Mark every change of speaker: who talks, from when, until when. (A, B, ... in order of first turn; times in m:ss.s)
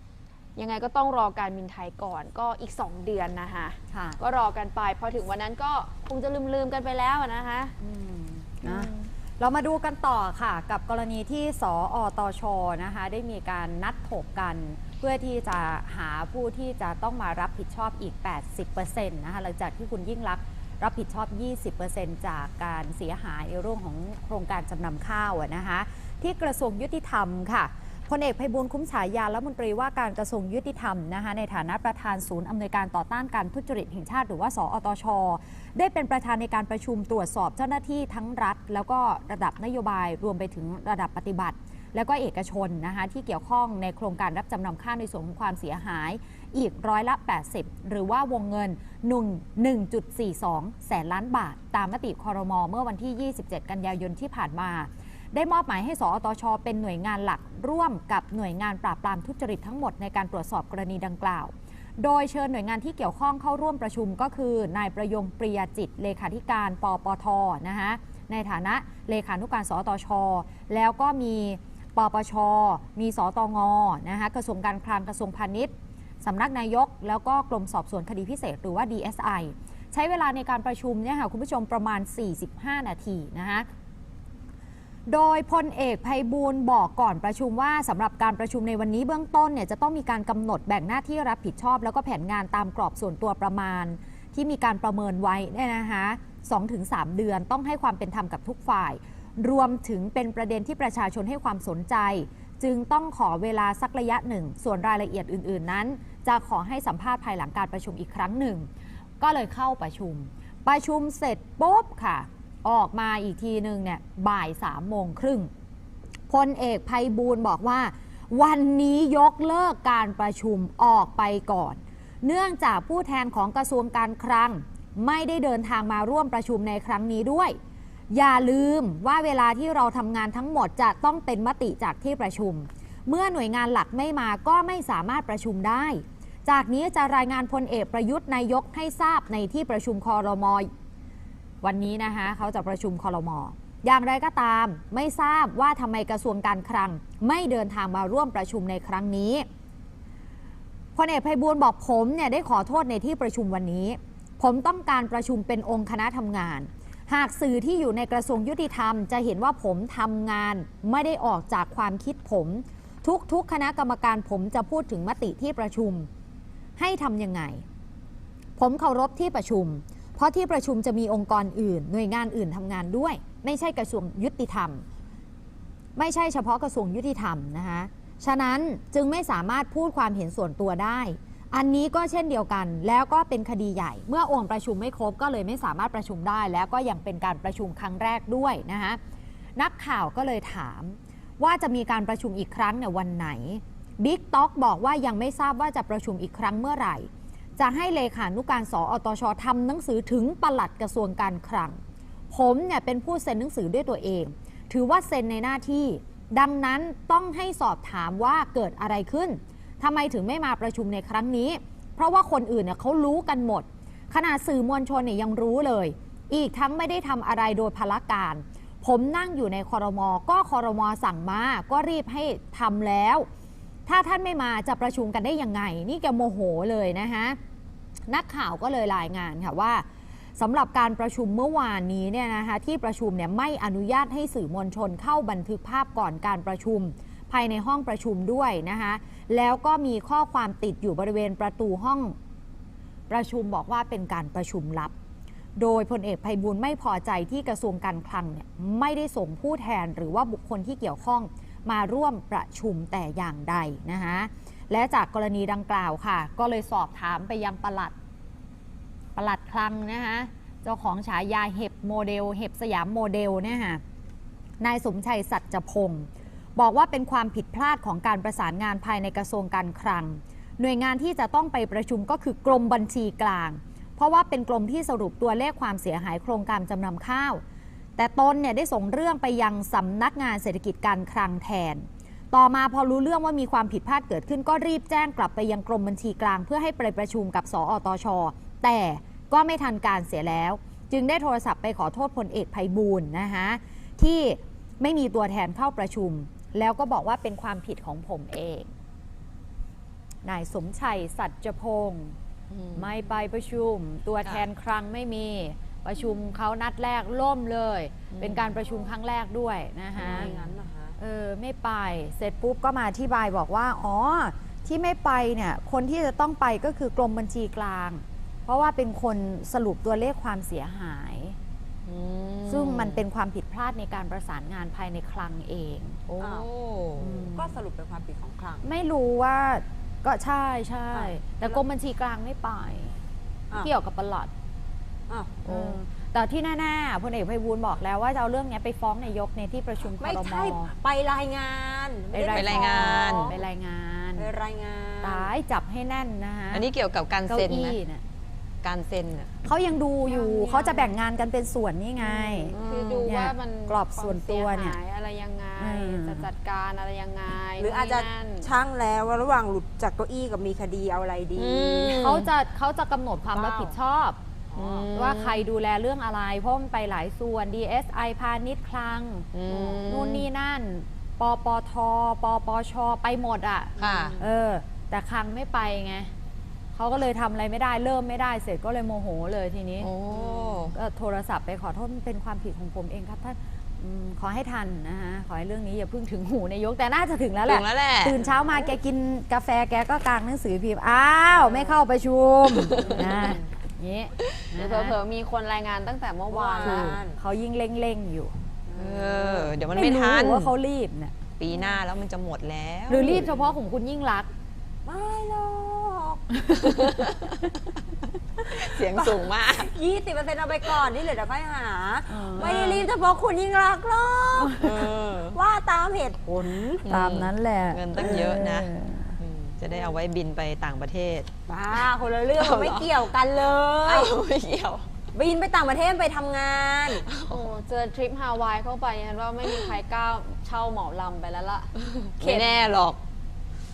0:00.6-0:07.7 A
0:03.9-0:04.2 B
0:07.8-1:23.7 B
0:08.6-0:09.1 A
1:25.1-1:48.7 B
1:49.2-1:55.5 B
1:56.3-2:07.6 B
2:08.1-2:20.7 B
2:21.6-2:29.5 B
2:31.0-2:46.1 B
2:46.8-2:47.6 B
2:48.6-2:54.8 B
2:56.0-3:09.0 B
3:09.6-3:21.8 B
3:22.3-3:43.2 B
3:43.8-3:47.4 B
3:48.1-3:49.8 B
3:50.4-4:02.2 B
4:03.1-4:04.9 B
4:05.6-4:17.9 B
4:19.2-4:23.8 B
4:24.6-4:37.4 B
4:38.0-4:58.7 B
5:00.2-5:02.2 B
5:02.5-5:02.9 C
5:02.7-5:10.3 B
5:08.1-5:08.5 C
5:10.0-5:11.0 D
5:10.2-5:10.5 C
5:11.0-5:21.4 B
5:21.8-5:23.0 C
5:22.5-5:26.0 B
5:26.1-5:27.3 C
5:26.2-5:26.5 D
5:27.0-5:27.6 B
5:27.3-5:28.6 D
5:28.6-5:33.0 B
5:30.9-5:31.6 D
5:33.6-5:34.3 B
5:35.1-5:35.4 D
5:35.4-5:35.8 C
5:35.5-5:40.7 B
5:40.0-5:43.4 D
5:42.1-5:44.3 B
5:42.3-5:43.3 C
5:44.2-5:45.3 D
5:45.0-5:46.6 B
5:46.5-5:47.8 C
5:47.3-5:48.0 B
5:48.6-5:49.3 C
5:49.4-5:54.8 B
5:50.0-5:50.9 A
5:52.0-5:58.5 A
5:52.5-5:53.0 C
5:55.6-5:56.3 B
5:57.6-6:02.2 D
6:01.4-6:02.3 C
6:02.0-6:04.2 B
6:03.3-6:03.8 D
6:04.5-6:05.4 C
6:04.8-6:09.3 B
6:09.3-6:10.2 C
6:09.5-6:09.8 D
6:09.8-6:16.1 B
6:13.8-6:14.2 C
6:13.8-6:14.2 D
6:16.7-6:19.9 B
6:19.8-6:20.8 C
6:20.1-6:20.5 D
6:20.7-6:35.0 B
6:27.4-6:28.2 C
6:32.8-6:33.4 D
6:34.5-6:37.0 A
6:36.3-6:37.2 D
6:36.6-6:38.3 B
6:38.7-6:39.6 D
6:38.7-6:40.5 C
6:39.7-6:41.1 B
6:41.4-6:43.2 C
6:41.5-6:41.8 D
6:42.9-6:44.3 B
6:43.1-6:43.4 D
6:44.8-6:46.5 D
6:46.5-6:47.4 C
6:48.5-6:49.7 C
6:48.8-6:56.8 D
6:52.1-6:52.6 B
6:52.4-6:52.9 C
6:54.4-6:54.6 B
6:54.6-6:55.4 C
6:56.8-7:03.0 C
6:56.9-6:59.1 B
6:58.0-6:58.4 D
6:59.7-7:00.0 D
7:01.5-7:04.1 D
7:03.8-7:04.9 C
7:05.1-7:07.0 D
7:07.0-7:07.4 C
7:07.3-7:12.6 A
7:11.8-7:13.0 C